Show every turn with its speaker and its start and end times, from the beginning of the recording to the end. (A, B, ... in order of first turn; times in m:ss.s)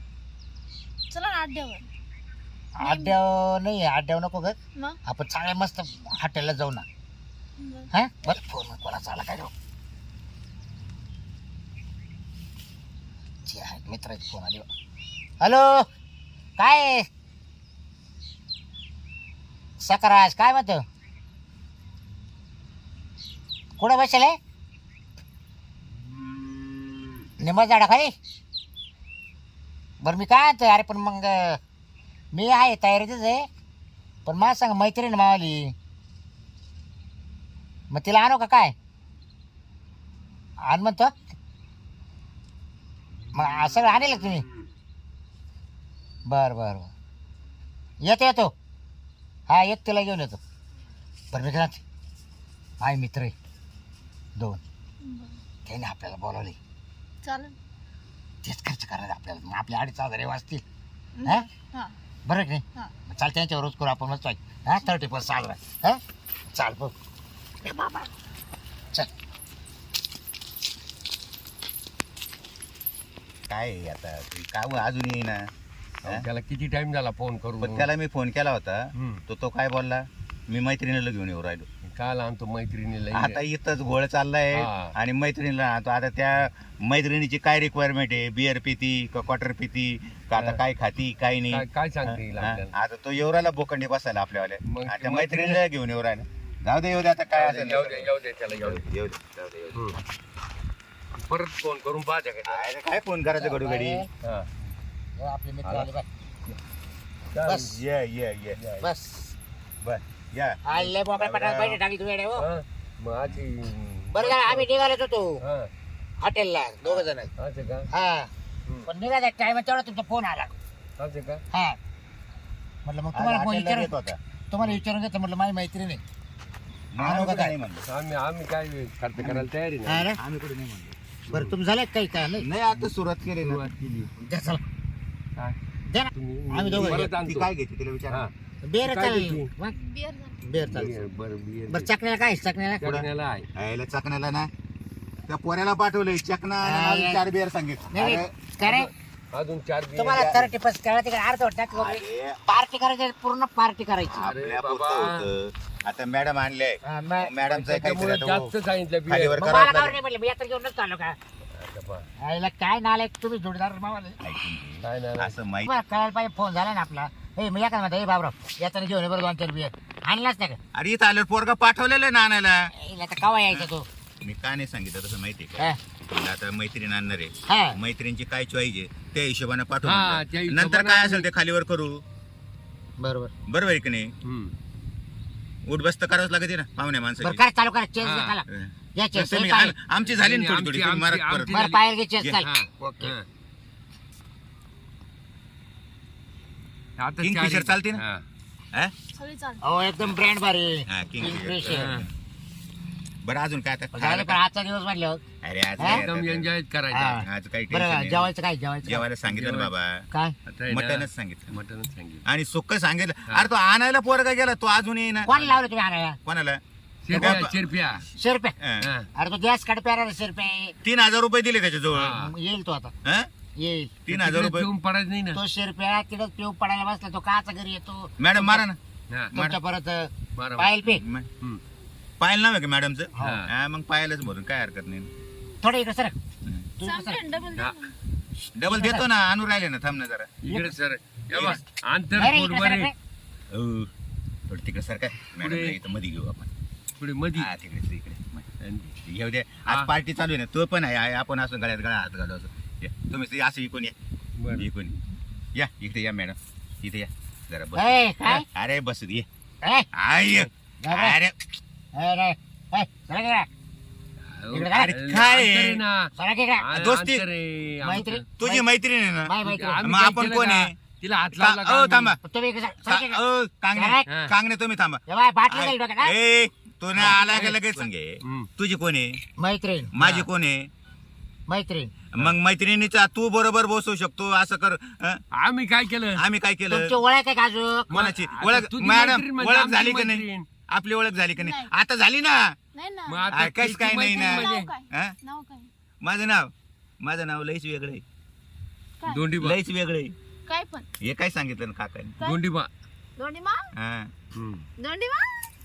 0:01.1-0:01.9 A
0:02.8-0:04.6 B
0:02.8-0:03.1 A
0:05.1-0:06.8 B
0:07.6-0:07.9 A
0:07.9-0:09.5 B
0:13.5-0:14.7 B
0:15.4-0:15.8 B
0:16.6-0:17.0 B
0:19.8-0:20.8 B
0:23.8-0:24.4 B
0:27.4-0:28.1 B
0:30.0-0:31.6 B
0:32.3-0:33.5 B
0:34.2-0:35.7 B
0:37.9-0:38.7 B
0:40.6-0:41.2 B
0:43.3-0:44.5 B
0:46.3-0:46.9 B
0:48.0-0:48.5 B
0:49.5-0:50.4 B
0:51.3-0:51.8 B
0:52.8-0:53.3 B
0:54.4-0:54.6 B
0:55.0-0:55.3 A
0:55.7-0:56.6 B
0:57.2-0:57.5 A
0:58.4-1:00.6 B
1:01.2-1:01.9 A
1:02.3-1:06.0 B
1:06.5-1:06.9 B
1:07.6-1:08.1 B
1:13.5-1:15.4 C
1:16.0-1:17.9 D
1:17.6-1:21.7 C
1:21.9-1:23.4 D
1:23.1-1:39.8 C
1:24.5-1:24.9 D
1:30.3-1:30.6 D
1:31.5-1:32.7 D
1:34.7-1:35.6 D
1:37.3-1:38.8 D
1:41.2-1:42.7 D
1:42.5-1:44.0 C
1:43.4-1:44.1 B
1:44.2-1:44.5 D
1:45.2-1:46.0 B
1:47.3-1:47.8 D
1:47.4-1:47.7 B
1:47.7-1:48.6 C
1:48.6-1:48.9 D
1:48.8-1:49.3 B
1:50.3-1:50.6 C
1:50.6-1:52.5 B
1:51.1-1:51.8 C
1:52.4-1:54.7 D
1:54.1-1:55.4 B
1:55.4-1:55.7 D
1:56.2-1:57.3 B
1:56.8-1:57.9 D
1:57.9-1:58.3 B
1:58.8-2:00.6 B
2:01.0-2:01.4 D
2:01.5-2:01.8 B
2:02.8-2:03.9 B
2:03.1-2:04.2 C
2:04.5-2:06.0 B
2:06.9-2:07.8 C
2:07.0-2:07.5 B
2:07.9-2:10.1 D
2:09.2-2:09.5 C
2:09.8-2:10.2 B
2:10.2-2:11.0 C
2:11.3-2:11.5 D
2:11.3-2:12.5 B
2:12.4-2:13.7 C
2:12.7-2:14.1 D
2:14.2-2:14.6 B
2:15.9-2:17.1 B
2:16.1-2:17.5 D
2:16.8-2:18.2 C
2:18.1-2:19.5 D
2:18.6-2:19.8 B
2:19.8-2:20.4 A
2:20.4-2:21.0 B
2:20.6-2:21.9 D
2:21.7-2:22.9 B
2:22.8-2:23.5 D
2:23.6-2:24.5 C
2:25.3-2:28.3 C
2:26.6-2:27.2 B
2:27.9-2:28.9 B
2:28.6-2:30.5 D
2:29.9-2:34.3 B
2:30.1-2:30.4 C
2:31.7-2:32.4 C
2:34.2-2:38.5 C
2:34.2-2:35.3 D
2:36.8-2:37.3 B
2:37.5-2:39.4 D
2:39.1-2:40.0 C
2:39.4-2:41.2 B
2:41.6-2:42.1 D
2:42.2-2:44.2 B
2:44.2-2:45.7 C
2:44.8-2:45.3 D
2:45.6-2:50.6 B
2:50.7-2:52.6 C
2:52.8-2:53.8 B
2:54.2-3:02.0 C
2:57.5-2:57.8 B
2:59.8-3:01.3 D
3:03.0-3:03.3 B
3:03.5-3:04.1 C
3:04.2-3:04.5 D
3:05.7-3:07.4 C
3:07.2-3:09.8 B
3:08.0-3:08.4 D
3:08.5-3:11.6 C
3:10.0-3:11.8 D
3:11.5-3:13.1 B
3:12.4-3:13.3 D
3:17.0-3:18.2 D
3:17.2-3:18.0 C
3:19.2-3:19.6 A
3:19.6-3:22.0 B
3:20.9-3:22.0 C
3:21.7-3:22.1 D
3:23.2-3:24.4 C
3:23.9-3:25.2 B
3:25.4-3:26.5 C
3:25.8-3:26.0 B
3:25.8-3:27.2 D
3:26.9-3:29.1 B
3:27.2-3:28.3 C
3:28.8-3:30.0 C
3:29.3-3:29.7 D
3:30.5-3:32.2 D
3:30.7-3:31.5 C
3:32.2-3:35.3 C
3:35.2-3:36.2 B
3:35.3-3:35.6 D
3:36.2-3:36.6 C
3:37.0-3:38.0 D
3:37.1-3:37.6 C
3:38.2-3:38.6 B
3:38.6-3:38.9 C
3:38.8-3:39.1 D
3:39.2-3:40.7 B
3:40.8-3:42.2 C
3:41.9-3:42.3 D
3:42.2-3:42.9 B
3:43.0-3:43.3 C
3:43.6-3:43.9 B
3:44.0-3:44.7 C
3:44.1-3:45.4 D
3:45.3-3:48.6 B
3:48.2-3:48.8 C
3:49.3-3:49.6 C
3:49.3-3:51.0 B
3:50.4-3:50.8 D
3:50.9-3:51.3 C
3:52.2-3:55.1 C
3:53.2-3:53.4 B
3:53.2-3:53.5 D
3:55.6-3:56.2 B
3:56.8-3:57.2 B
3:56.8-3:57.9 A
3:57.5-3:57.8 D
3:58.6-4:00.3 C
3:58.6-3:59.0 B
4:00.4-4:02.9 D
4:00.5-4:00.8 B
4:01.3-4:01.6 C
4:02.2-4:02.9 B
4:03.5-4:03.9 C
4:04.5-4:06.5 C
4:05.3-4:05.8 D
4:07.0-4:07.5 D
4:07.4-4:08.5 C
4:08.6-4:09.0 D
4:09.0-4:13.9 C
4:14.4-4:14.7 D
4:14.5-4:15.0 C
4:15.6-4:18.0 C
4:17.8-4:18.4 B
4:18.5-4:19.3 C
4:20.0-4:21.4 C
4:20.8-4:21.2 B
4:21.9-4:23.5 B
4:24.3-4:28.2 D
4:24.5-4:25.0 B
4:24.7-4:25.8 C
4:26.2-4:26.6 B
4:26.7-4:27.2 C
4:27.8-4:28.6 B
4:28.4-4:30.7 C
4:29.2-4:29.8 B
4:29.4-4:32.2 D
4:31.3-4:32.2 C
4:32.2-4:33.2 B
4:32.9-4:39.2 C
4:33.7-4:34.0 B
4:34.1-4:34.3 D
4:35.1-4:36.1 B
4:37.0-4:37.7 D
4:37.0-4:37.3 B
4:39.4-4:39.9 B
4:39.9-4:40.7 C
4:40.0-4:40.3 D
4:41.5-4:41.9 B
4:42.1-4:45.2 C
4:45.4-4:46.2 D
4:46.2-4:46.9 C
4:46.7-4:47.9 B
4:47.9-4:50.5 D
4:47.9-4:52.4 C
4:51.4-4:51.7 A
4:52.8-4:53.3 A
4:53.1-4:54.7 D
4:53.3-4:55.2 C
4:54.0-4:55.7 A
4:56.0-4:58.0 C
4:59.0-4:59.3 A
4:59.1-4:59.6 D
4:59.4-5:00.1 C
5:00.5-5:00.9 A
5:01.0-5:02.2 C
5:02.2-5:02.7 D
5:03.2-5:03.6 A
5:03.8-5:04.1 C
5:04.4-5:04.7 D
5:04.8-5:05.5 A